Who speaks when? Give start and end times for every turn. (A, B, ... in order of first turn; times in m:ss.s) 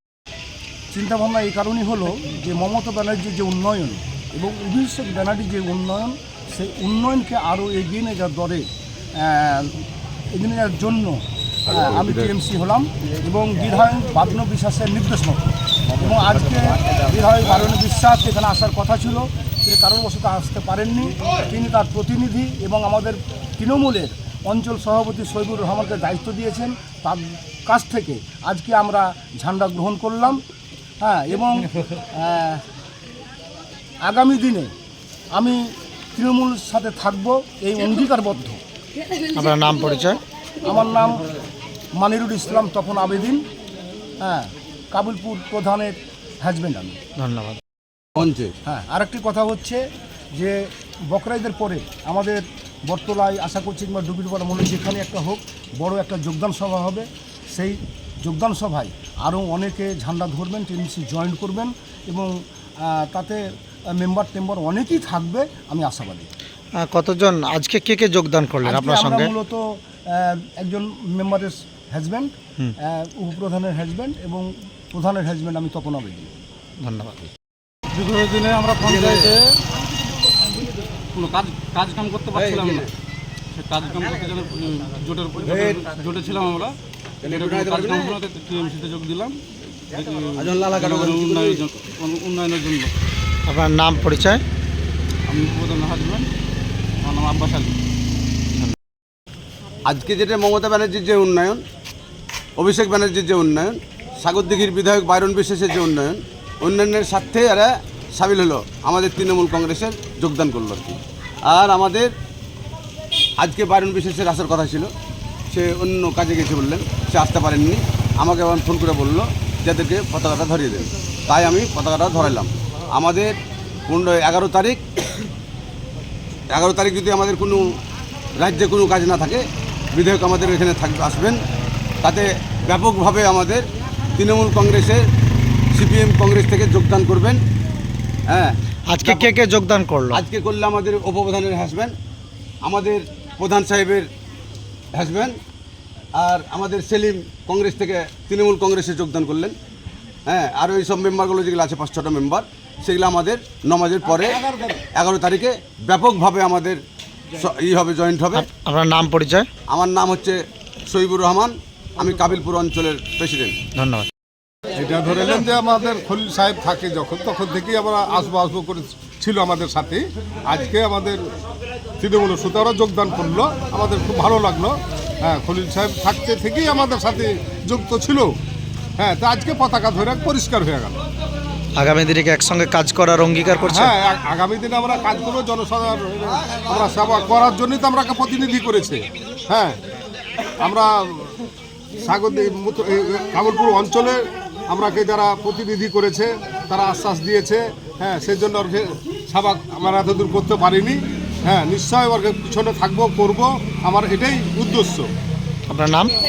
0:00.9-0:30.4 A
0:31.0-0:32.6 A
0:34.0-0:34.7 A
0:35.3-0:38.6 A
0:39.3-0:40.2 B
0:40.6-0:41.2 A
0:42.0-0:43.4 A
0:44.2-0:47.0 A
0:47.2-0:47.6 B
0:48.2-0:48.5 C
0:48.7-0:49.8 A
0:50.4-1:06.3 A
1:06.8-1:09.3 B
1:08.6-1:16.3 A
1:16.8-1:17.3 B
1:17.9-1:19.5 D
1:18.9-1:19.3 C
1:21.1-1:22.9 D
1:22.4-1:22.9 C
1:23.6-1:29.4 D
1:27.3-1:28.2 C
1:29.9-1:32.9 D
1:30.4-1:31.6 C
1:33.5-1:34.4 B
1:35.3-1:36.3 D
1:37.0-1:37.8 D
1:39.8-1:41.6 C
1:42.6-1:52.1 C
1:53.4-1:54.9 C
1:55.5-2:03.3 C
2:03.9-2:04.8 C
2:06.5-2:07.6 C
2:08.4-2:11.4 C
2:12.0-2:15.0 C
2:15.7-2:17.4 C
2:18.9-2:20.2 B
2:20.1-2:22.0 C
2:22.6-2:24.1 C
2:24.9-2:25.4 C
2:26.2-2:29.6 C
2:30.3-2:34.4 C
2:34.3-2:34.9 E
2:34.9-2:36.8 C
2:37.4-2:38.4 C
2:38.4-2:39.5 B
2:39.7-2:43.6 C
2:43.8-2:44.1 B
2:44.8-2:51.3 E
2:52.0-2:58.4 E
2:59.0-3:01.0 E
3:01.8-3:03.9 B
3:03.7-3:09.8 E
3:10.6-3:11.3 E
3:12.0-3:25.1 E
3:25.7-3:26.1 B